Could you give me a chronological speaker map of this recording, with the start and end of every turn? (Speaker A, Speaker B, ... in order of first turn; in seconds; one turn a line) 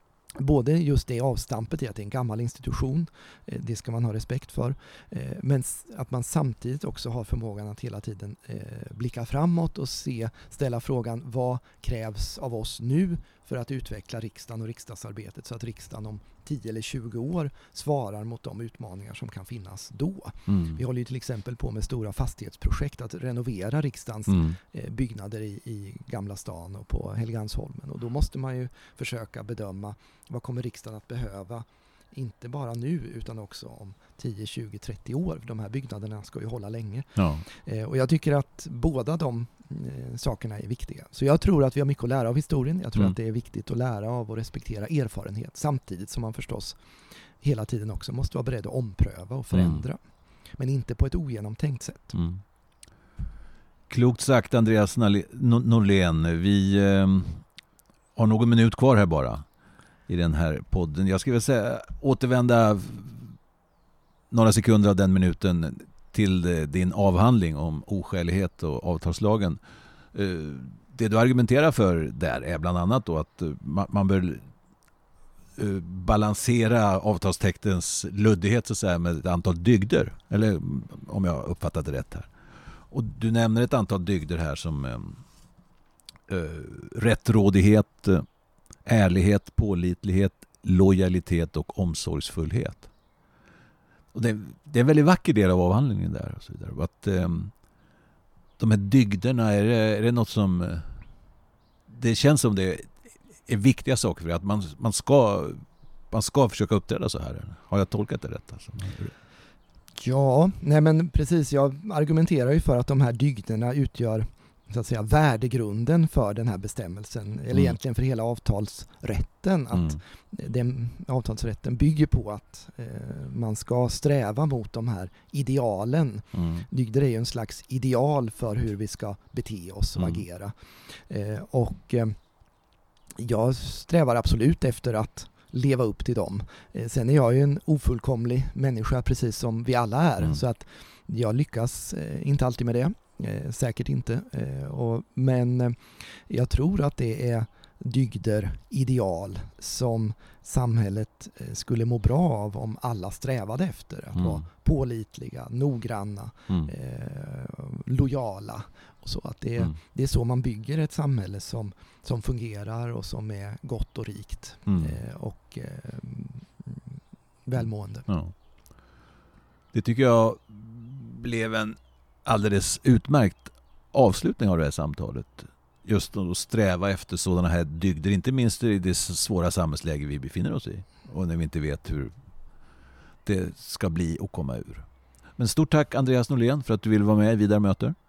Speaker A: 0.4-46.8
Speaker B: 20.5-20.8
Speaker B: 24.3-24.6
Speaker B: 37.2-37.4
Speaker A: 47.4-50.0
Speaker B: 49.5-49.8
Speaker A: 50.6-52.1
Speaker B: 52.1-52.4
Speaker B: 53.9-57.4
Speaker B: 58.1-59.4
Speaker B: 60.1-63.3
Speaker B: 64.3-69.6
Speaker B: 70.1-74.5
Speaker B: 75.6-82.3
Speaker B: 82.9-85.2
Speaker B: 86.3-88.2
Speaker B: 88.8-92.9
Speaker B: 94.1-97.5
Speaker B: 98.6-100.9
Speaker B: 101.9-109.1
Speaker A: 110.0-132.2
Speaker B: 119.7-120.0
Speaker B: 126.3-126.6
Speaker A: 133.2-168.1
Speaker B: 154.2-154.4
Speaker B: 164.7-165.0
Speaker B: 168.1-168.3
Speaker B: 169.7-182.1
Speaker B: 183.2-187.9